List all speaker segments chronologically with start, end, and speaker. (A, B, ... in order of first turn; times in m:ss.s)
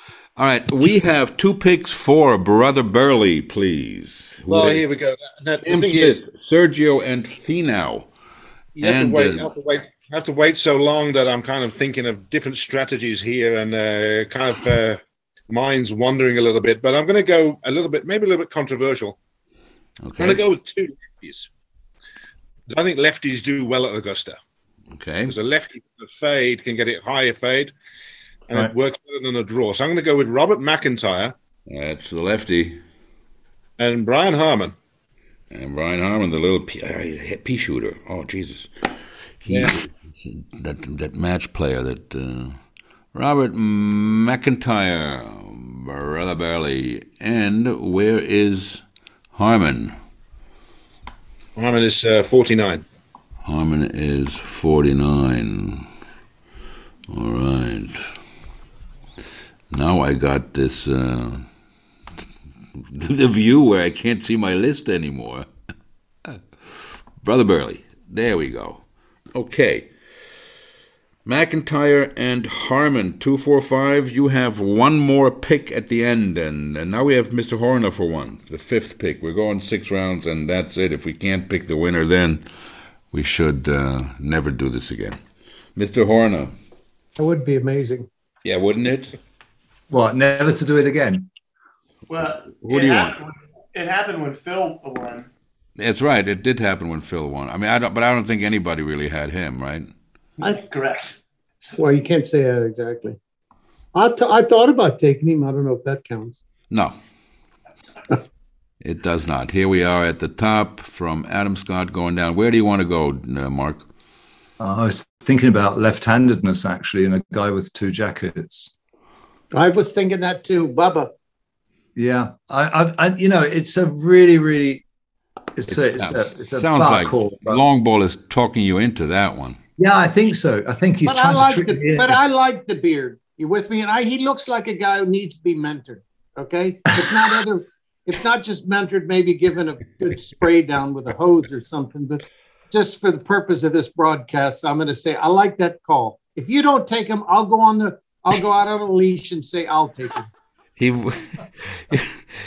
0:00.4-0:04.8 A
0:04.5-0:06.2 B
0:05.6-0:08.1 A
0:08.8-0:19.2 B
0:08.8-0:09.5 A
0:20.0-0:20.4 A
0:20.2-0:21.5 B
0:22.7-0:24.4 B
0:24.9-0:25.3 A
0:25.3-0:27.7 B
0:28.5-0:31.3 B
0:31.7-0:32.8 A
0:33.8-0:34.8 B
0:35.5-0:42.6 A
0:39.5-0:39.8 B
0:43.1-0:48.8 A
0:49.3-0:50.0 A
0:51.6-0:52.8 B
0:53.4-0:55.9 A
0:57.1-0:58.0 A
0:59.7-1:01.4 A
1:02.9-1:05.5 A
1:07.2-1:08.8 A
1:09.3-1:09.9 A
1:11.2-1:22.4 A
1:23.1-1:25.2 A
1:25.8-1:26.5 A
1:27.2-1:28.1 C
1:28.4-1:29.2 A
1:29.9-1:31.3 D
1:32.1-1:35.3 E
1:32.6-1:33.2 A
1:35.8-1:39.9 A
1:40.4-1:41.2 E
1:41.7-1:43.2 C
1:43.9-1:46.4 C
1:48.8-1:53.9 A
1:54.6-1:58.7 D
1:59.5-2:01.1 C
2:02.0-2:04.8 D
2:05.6-2:07.6 D
2:05.8-2:09.6 A
2:09.8-2:12.2 D
2:11.0-2:30.3 C
2:30.8-2:32.1 A